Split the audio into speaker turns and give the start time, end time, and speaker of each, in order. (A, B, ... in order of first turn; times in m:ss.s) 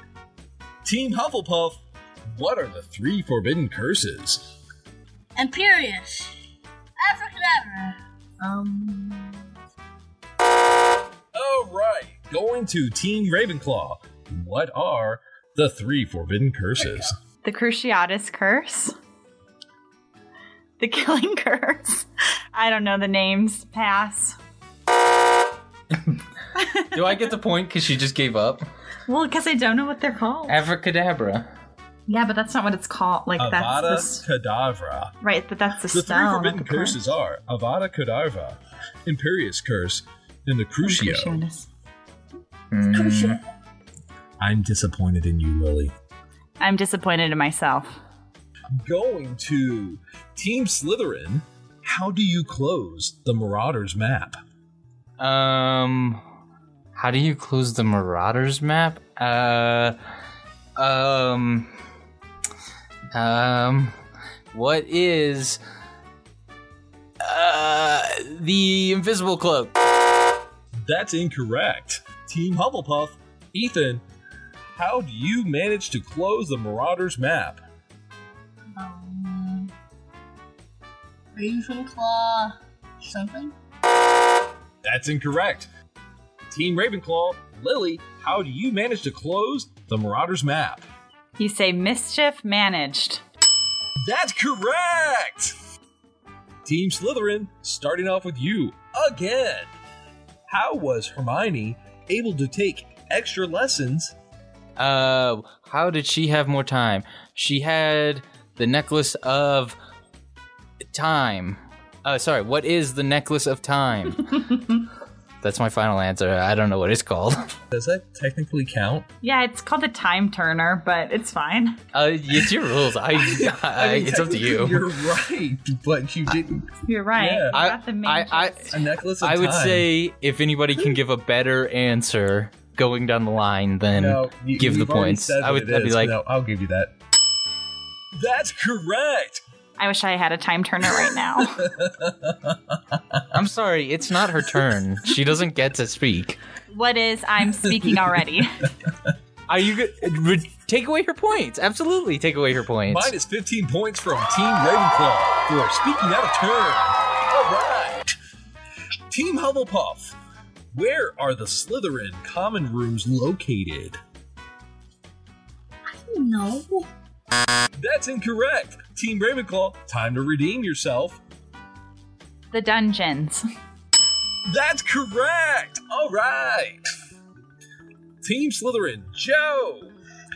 0:00.8-0:04.5 A
0:05.4-0:06.3 B
0:07.0-0:08.0 B
0:08.4-0:09.4 C
0:11.3-0:17.2 A
0:17.4-0:19.0 C
0:20.8-0:24.4 C
0:26.6-0:27.2 C
0:26.9-0:28.6 D
0:29.1-0:30.6 C
0:30.5-0:31.5 D
0:32.1-0:34.2 C
0:33.4-0:35.1 A
0:35.2-0:37.0 C
0:35.9-0:41.4 A
0:40.8-0:41.7 C
0:42.7-0:43.4 D
0:42.9-0:43.4 B
0:44.4-0:45.9 A
0:46.6-0:47.9 C
0:48.8-0:54.4 A
0:55.2-0:56.2 D
0:57.0-1:00.0 D
1:00.8-1:01.7 D
1:03.1-1:03.9 D
1:04.5-1:05.6 D
1:07.2-1:09.7 D
1:10.8-1:14.0 A
1:14.8-1:17.6 A
1:18.8-1:19.7 B
1:21.4-1:23.5 B
1:24.8-1:25.7 A
1:26.5-1:30.9 A
1:31.4-1:33.2 C
1:34.0-1:35.6 A
1:36.6-1:39.7 A
1:40.5-1:44.1 A
1:44.8-1:49.8 D
1:50.9-1:54.5 D
1:55.4-1:57.5 D
1:57.7-1:59.1 A
1:59.2-2:01.8 C
2:01.9-2:04.8 D
2:03.1-2:07.6 A
2:06.9-2:08.8 C
2:07.5-2:16.2 D
2:08.7-2:09.9 A
2:14.0-2:16.9 A
2:18.2-2:19.4 A
2:19.8-2:21.7 C
2:21.6-2:23.2 A
2:23.3-2:26.4 D
2:26.7-2:28.7 C
2:29.5-2:33.1 D
2:32.9-2:38.2 A
2:39.1-2:40.2 A
2:40.7-2:44.0 A
2:45.9-2:46.9 B
2:47.8-2:51.2 A
2:52.5-2:53.4 C
2:54.5-2:56.9 A
2:58.2-2:59.9 A